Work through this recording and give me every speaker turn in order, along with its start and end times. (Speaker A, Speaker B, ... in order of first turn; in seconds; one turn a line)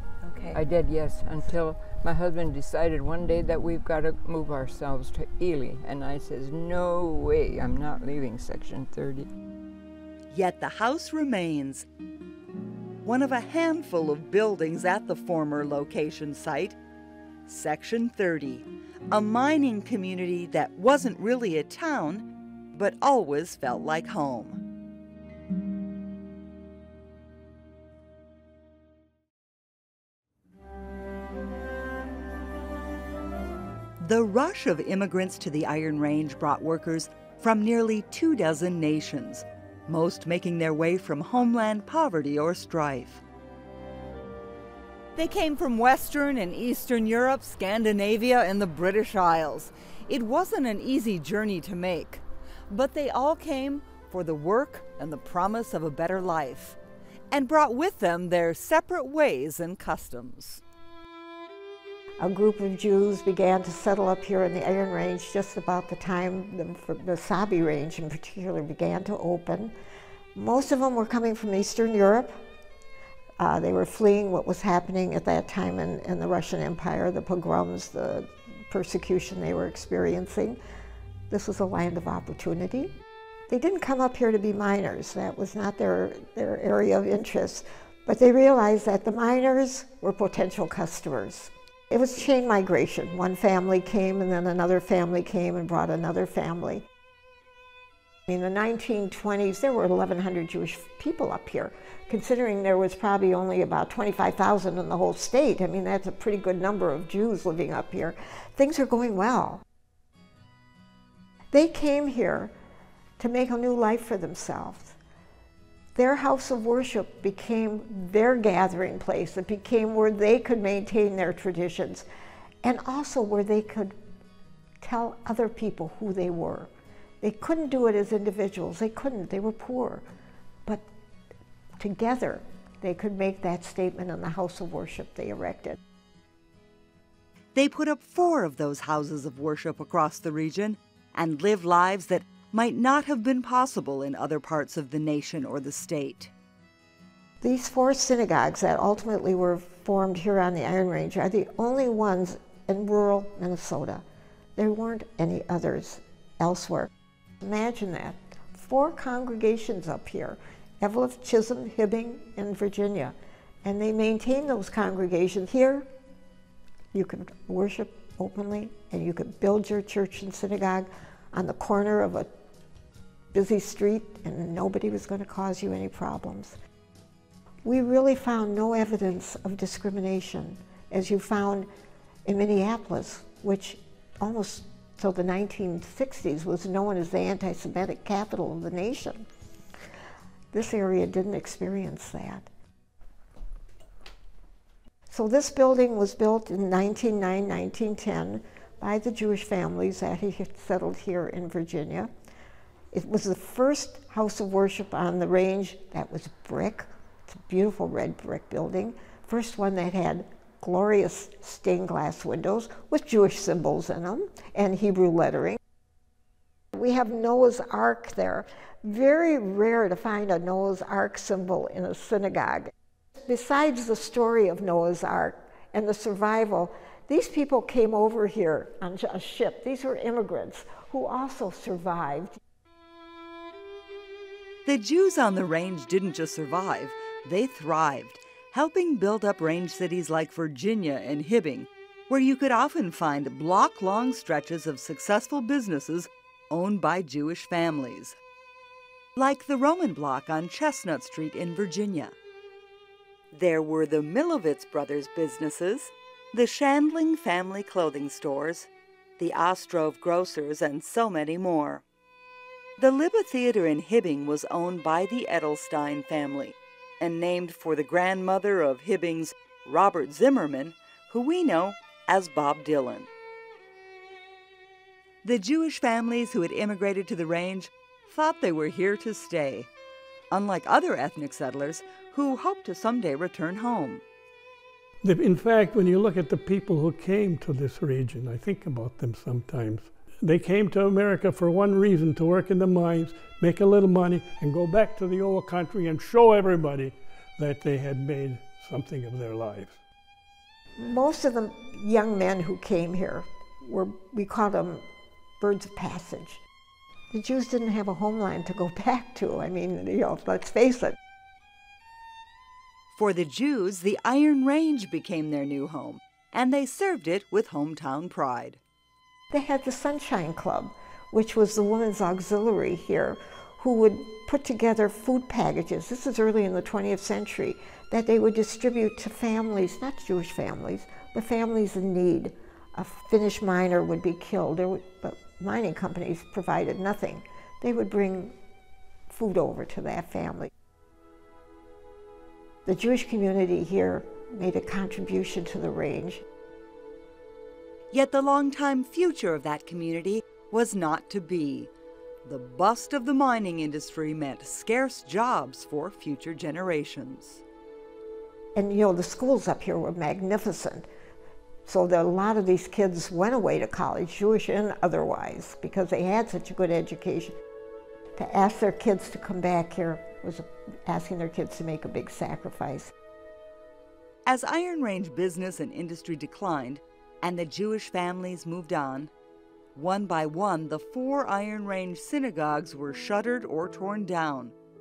Speaker A: 0.2-0.6
Speaker B: 0.5-9.3
Speaker A: 10.3-11.8
Speaker A: 13.0-16.8
Speaker A: 17.5-24.6
Speaker A: 34.0-43.2
Speaker A: 45.1-56.8
Speaker A: 57.3-60.6
Speaker C: 62.2-69.7
Speaker C: 70.3-72.4
Speaker C: 73.4-80.6
Speaker C: 81.3-83.0
Speaker C: 83.5-96.8
Speaker C: 98.3-109.6
Speaker C: 111.5-112.5
Speaker C: 113.2-115.0
Speaker C: 115.9-122.0
Speaker C: 122.6-124.0
Speaker C: 124.8-130.1
Speaker C: 131.8-135.8
Speaker A: 137.5-146.3
Speaker C: 147.4-154.0
Speaker C: 154.6-156.9
Speaker C: 157.4-165.9
Speaker C: 166.9-172.3
Speaker C: 173.3-176.6
Speaker C: 177.6-181.7
Speaker C: 182.2-189.2
Speaker C: 190.5-192.5
Speaker C: 195.1-202.1
Speaker C: 202.9-215.6
Speaker C: 216.7-222.7
Speaker C: 223.2-232.4
Speaker A: 234.7-248.2
Speaker A: 249.2-252.1
Speaker A: 253.3-261.8
Speaker A: 262.8-273.1
Speaker A: 275.2-279.7
Speaker A: 280.3-284.0
Speaker D: 285.0-299.8
Speaker C: 300.8-304.8
Speaker C: 305.4-306.4
Speaker C: 307.1-311.0
Speaker A: 312.9-318.6
Speaker C: 319.3-338.4
Speaker C: 339.1-340.5
Speaker C: 342.6-346.2
Speaker A: 347.9-351.7
Speaker A: 352.2-357.4
Speaker C: 358.5-360.9
Speaker C: 361.6-367.4
Speaker C: 368.1-372.9
Speaker A: 374.2-379.1
Speaker A: 379.7-384.5